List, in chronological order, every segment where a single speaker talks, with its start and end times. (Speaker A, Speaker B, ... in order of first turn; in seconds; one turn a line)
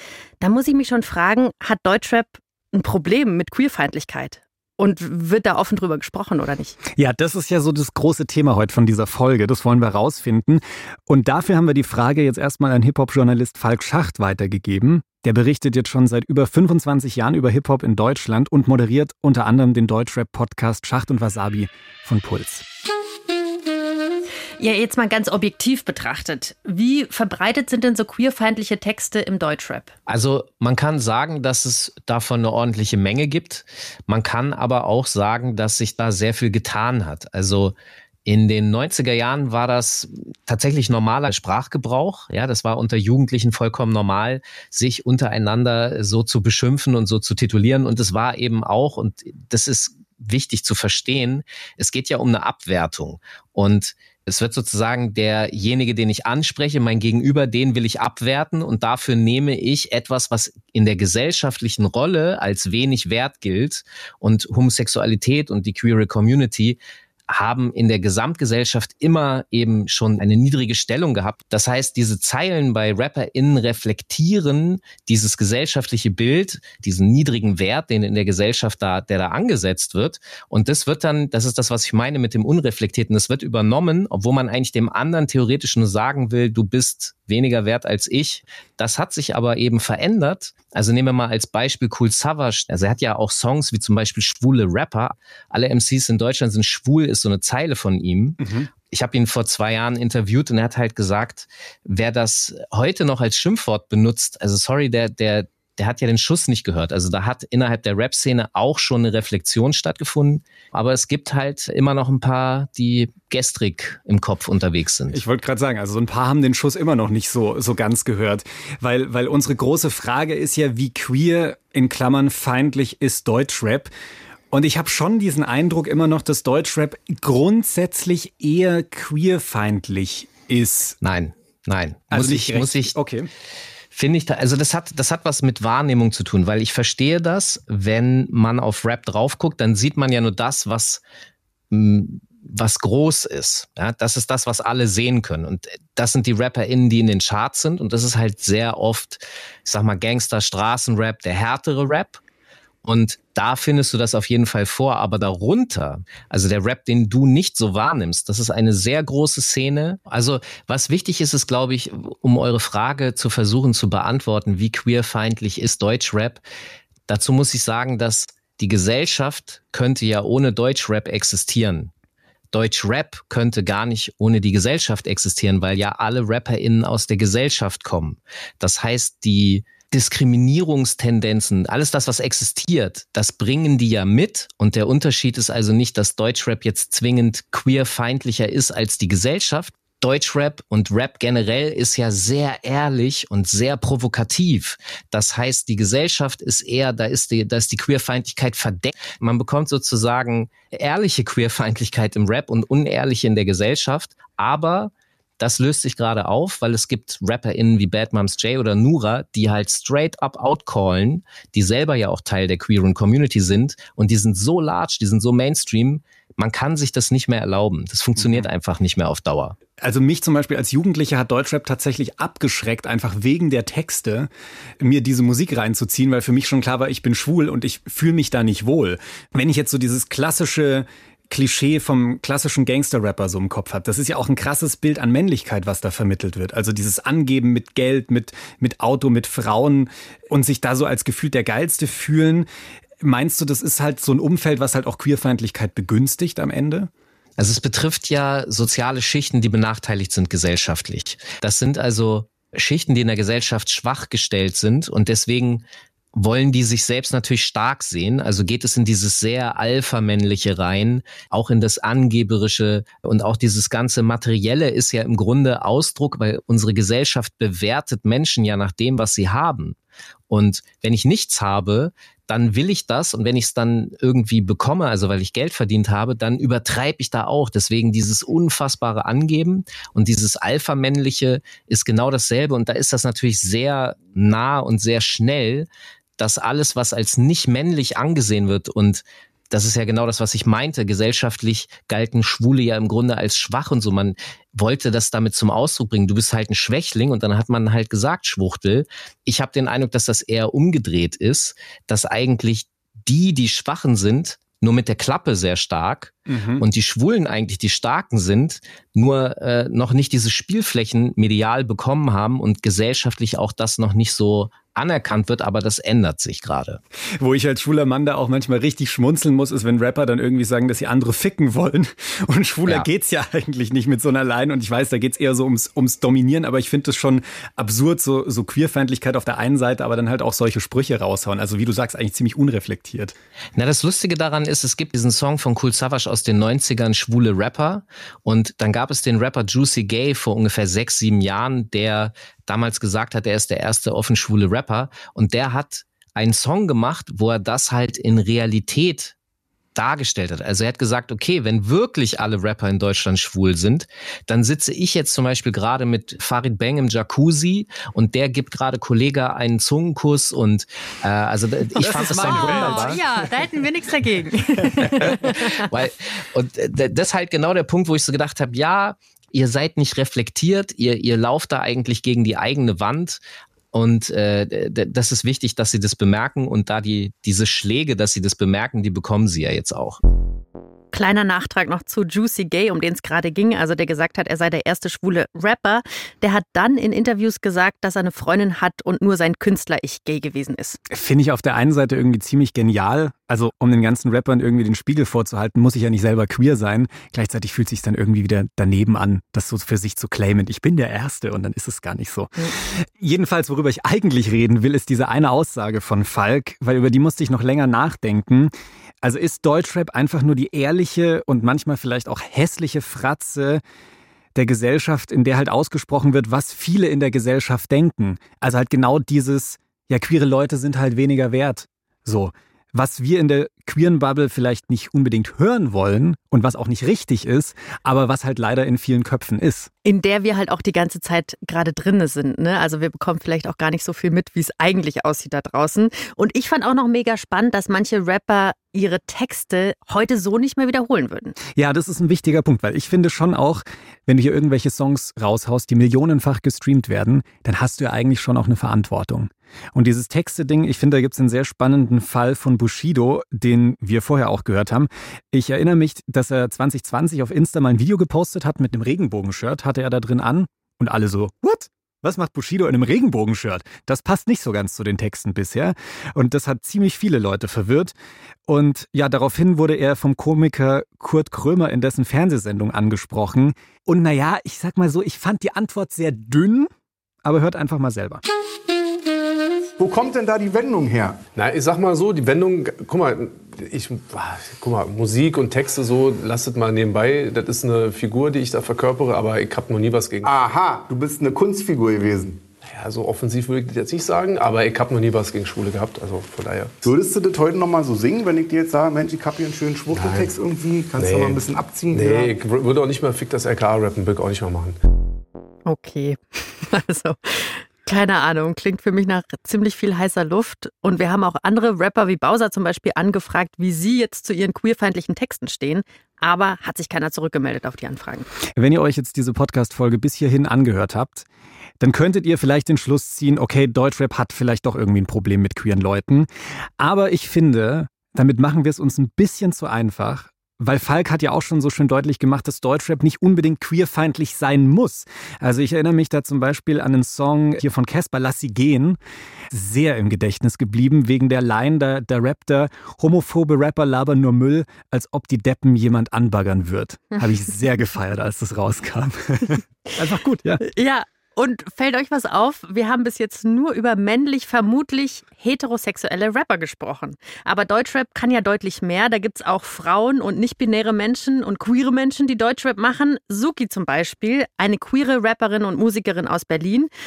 Speaker A: 0.4-6.8
Speaker B: 7.0-22.6
Speaker A: 24.6-29.9
Speaker C: 30.1-66.8
Speaker C: 67.3-98.4
Speaker B: 98.4-98.7
Speaker C: 98.9-115.2
Speaker B: 115.1-123.9
Speaker B: 124.5-131.0
Speaker C: 131.0-133.0
Speaker B: 132.1-133.3
Speaker C: 133.9-141.0
Speaker C: 141.7-152.2
Speaker C: 152.8-166.4
Speaker C: 167.1-171.9
Speaker C: 172.5-219.6
Speaker B: 218.2-218.5
Speaker B: 219.8-242.5
Speaker B: 243.0-246.9
Speaker C: 247.4-269.8
Speaker C: 270.3-316.8
Speaker B: 306.3-306.6
Speaker B: 317.2-333.1
Speaker C: 333.6-349.1
Speaker C: 349.8-363.0
Speaker B: 361.8-363.4
Speaker A: 361.9-365.7
Speaker B: 364.6-365.3
Speaker C: 364.9-373.2
Speaker C: 373.7-380.0
Speaker A: 380.9-390.8
Speaker B: 390.9-413.6
Speaker B: 414.4-429.7
Speaker A: 429.9-441.4
Speaker B: 441.5-467.9
Speaker B: 468.5-476.7
Speaker B: 477.2-478.2
Speaker D: 479.8-481.2
Speaker E: 481.4-490.3
Speaker D: 490.2-492.4
Speaker E: 492.6-496.8
Speaker D: 496.8-502.4
Speaker E: 499.9-500.3
Speaker E: 500.9-504.8
Speaker A: 505.6-518.3
Speaker B: 518.6-521.2
Speaker B: 521.8-526.3
Speaker B: 526.8-539.0
Speaker B: 539.5-550.6
Speaker A: 547.1-547.5
Speaker A: 550.6-566.9